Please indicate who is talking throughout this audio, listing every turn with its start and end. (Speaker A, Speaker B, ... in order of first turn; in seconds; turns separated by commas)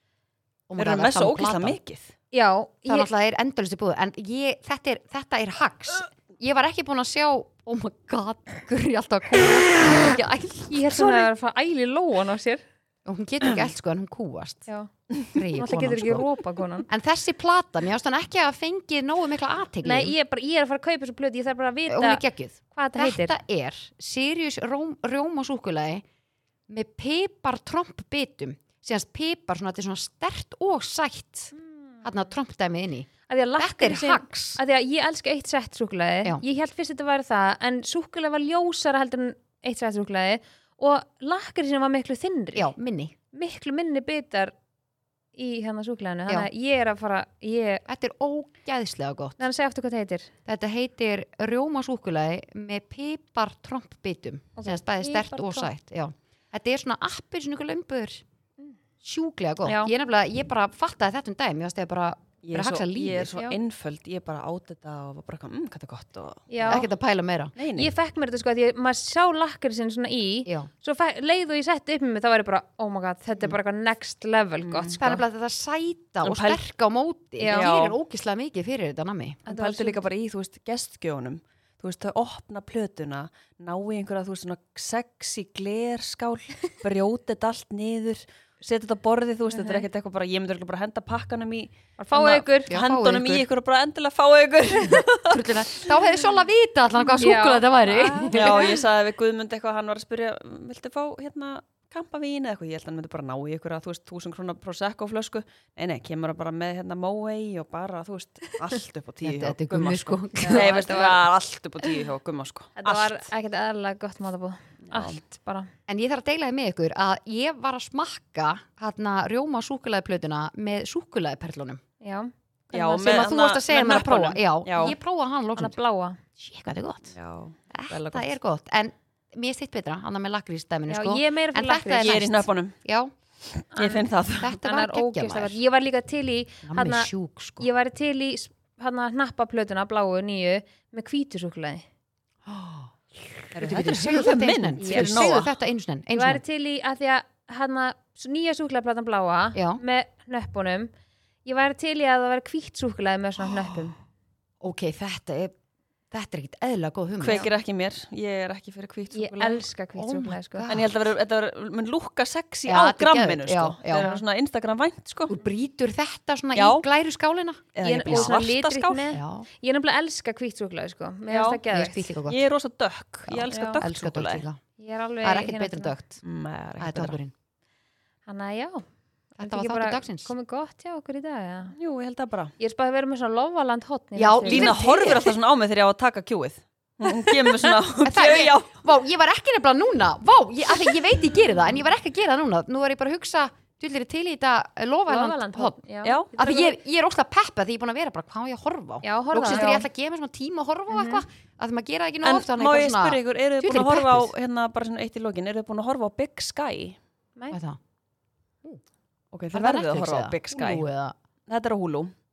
Speaker A: 0.7-1.8, Speaker B: 0.8-2.1, Speaker C: 2.3-3.1, Speaker A: 2.9-11.3, Speaker C: 10.7-12.6, Speaker A: 13.0-14.7, Speaker A: 15.3-16.3, Speaker C: 15.5-16.9, Speaker A: 16.9-20.1, Speaker C: 19.8-23.3, Speaker A: 21.9-26.0, Speaker A: 26.7-34.6, Speaker C: 31.5-32.0, Speaker C: 33.3-42.7, Speaker A: 42.5-43.1, Speaker C: 43.3-44.5, Speaker C: 45.4-47.8, Speaker A: 47.9-49.4, Speaker C: 49.4-50.3, Speaker A: 50.5-58.2, Speaker C: 54.6-55.7, Speaker A: 59.0-63.3, Speaker C: 59.6-59.9, Speaker B: 62.4-66.8, Speaker C: 66.5-66.9, Speaker A: 66.7-67.5, Speaker B: 67.5-67.9, Speaker C: 67.8-75.2, Speaker B: 74.6-75.0, Speaker A: 75.0-79.4, Speaker B: 76.2-76.6, Speaker C: 77.4-77.7, Speaker B: 77.5-78.0, Speaker C: 79.5-80.0, Speaker B: 79.5-96.0, Speaker C: 89.5-89.8, Speaker C: 92.0-92.8, Speaker A: 92.7-93.5, Speaker A: 95.0-98.8, Speaker C: 97.1-98.7, Speaker B: 97.9-113.2, Speaker A: 109.2-111.2, Speaker C: 110.4-111.2, Speaker C: 112.8-115.7, Speaker B: 114.9-115.2, Speaker A: 115.9-121.8, Speaker C: 122.0-122.3, Speaker A: 122.7-125.8, Speaker B: 122.7-124.9, Speaker C: 125.5-126.2, Speaker A: 126.4-127.2, Speaker B: 127.1-128.3, Speaker A: 127.7-133.1, Speaker C: 130.9-132.2, Speaker B: 132.0-132.7, Speaker B: 133.5-134.6, Speaker C: 133.7-134.1, Speaker A: 134.4-135.6, Speaker C: 134.6-141.8, Speaker A: 136.6-137.7, Speaker A: 142.4-146.4, Speaker B: 143.5-145.5, Speaker C: 144.8-145.2, Speaker C: 146.1-150.9, Speaker A: 149.5-149.8, Speaker C: 151.4-153.9, Speaker A: 154.6-155.5, Speaker A: 156.1-157.5, Speaker B: 157.2-159.7, Speaker C: 159.1-160.7, Speaker A: 159.9-161.1, Speaker B: 160.7-165.3, Speaker A: 162.7-164.1, Speaker C: 163.9-164.2, Speaker A: 165.3-168.4, Speaker B: 166.5-166.8, Speaker B: 167.8-169.1, Speaker C: 167.8-172.1, Speaker A: 169.1-169.5, Speaker B: 171.3-171.6, Speaker A: 171.7-172.4, Speaker B: 172.2-174.4, Speaker A: 173.3-174.6, Speaker C: 173.5-173.8, Speaker C: 174.8-175.9, Speaker A: 175.2-176.2, Speaker B: 176.2-177.2, Speaker A: 176.8-177.3, Speaker C: 178.3-178.8, Speaker C: 179.4-181.8, Speaker A: 179.4-180.3, Speaker B: 181.8-182.5, Speaker C: 182.6-184.8, Speaker A: 184.1-185.3, Speaker B: 184.4-188.8, Speaker A: 188.0-195.8, Speaker C: 195.1-196.8, Speaker B: 196.0-196.3, Speaker A: 196.3-204.3, Speaker C: 199.0-199.8, Speaker B: 199.5-199.8, Speaker C: 200.9-201.2, Speaker B: 202.2-207.0, Speaker A: 207.5-207.8, Speaker B: 209.3-210.9, Speaker A: 209.5-211.1, Speaker B: 211.5-212.1